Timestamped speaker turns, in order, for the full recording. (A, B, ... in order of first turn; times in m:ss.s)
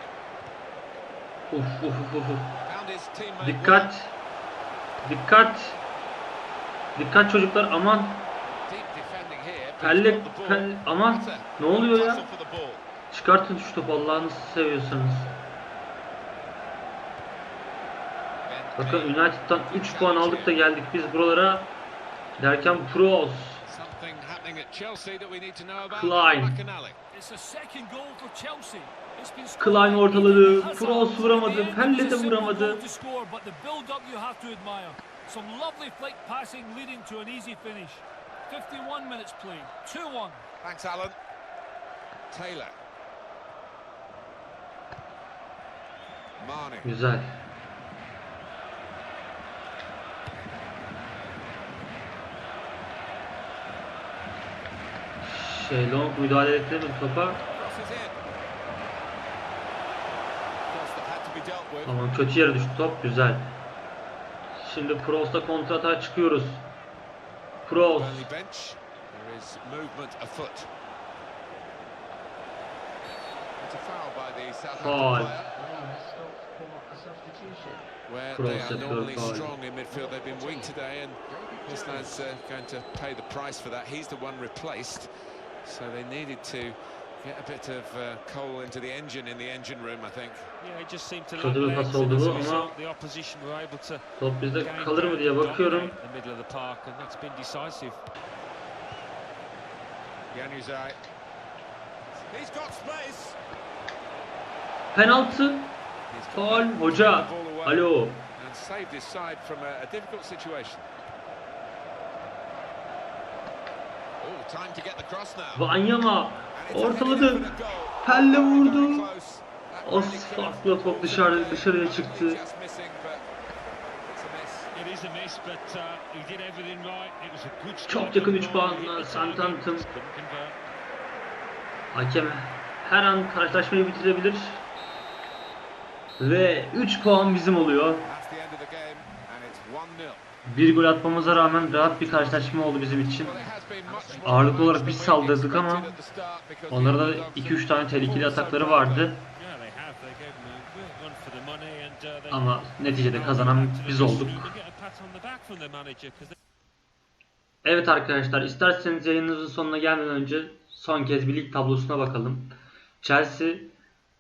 0:01.5-0:02.6 A
0:02.6-0:03.9 B
0:03.4-0:04.1 A
0:05.0-0:05.8 A
0:07.0-0:08.3 A
0:08.4-0:12.8 B
0:09.8-0:12.3 A
0:13.1-0:15.3 A
0:18.4-0:20.6 B
0:18.8-0:21.7 A
0:22.4-0:23.6 A
0:23.6-0:27.0 B
0:25.9-0:26.6 A
0:27.1-0:40.4 C
0:29.6-0:32.8 A
0:40.6-0:41.2 B
0:42.3-0:42.7 B
0:46.4-0:46.9 B
0:46.8-0:47.4 A
0:55.2-0:57.4 A
0:57.5-0:58.2 B
1:00.7-1:02.0 B
1:01.9-1:03.5 A
1:04.6-1:06.6 A
1:07.6-1:08.3 A
1:07.8-1:10.7 B
1:13.6-1:15.5 B
1:14.7-1:15.4 A
1:15.5-1:17.9 D
1:18.0-1:25.1 B
1:18.4-1:19.5 A
1:19.9-1:22.3 D
1:25.6-1:30.5 B
1:30.6-1:38.0 E
1:31.4-1:32.7 A
1:34.2-1:36.0 A
1:40.3-1:41.0 B
1:42.1-1:43.4 B
1:44.9-1:45.7 A
1:46.1-1:50.9 B
1:46.3-1:48.3 A
1:54.2-1:55.7 B
1:55.5-1:59.1 A
1:56.5-2:03.2 B
1:59.8-2:02.4 A
2:04.0-2:04.7 B
2:04.7-2:10.6 E
2:07.9-2:09.9 A
2:11.9-2:14.6 A
2:16.2-2:18.1 A
2:18.0-2:20.2 B
2:20.4-2:23.3 A
2:21.8-2:29.1 B
2:23.2-2:24.9 D
2:24.2-2:25.9 A
2:26.7-2:29.2 A
2:29.4-2:36.3 E
2:32.3-2:34.5 A
2:37.6-2:43.7 A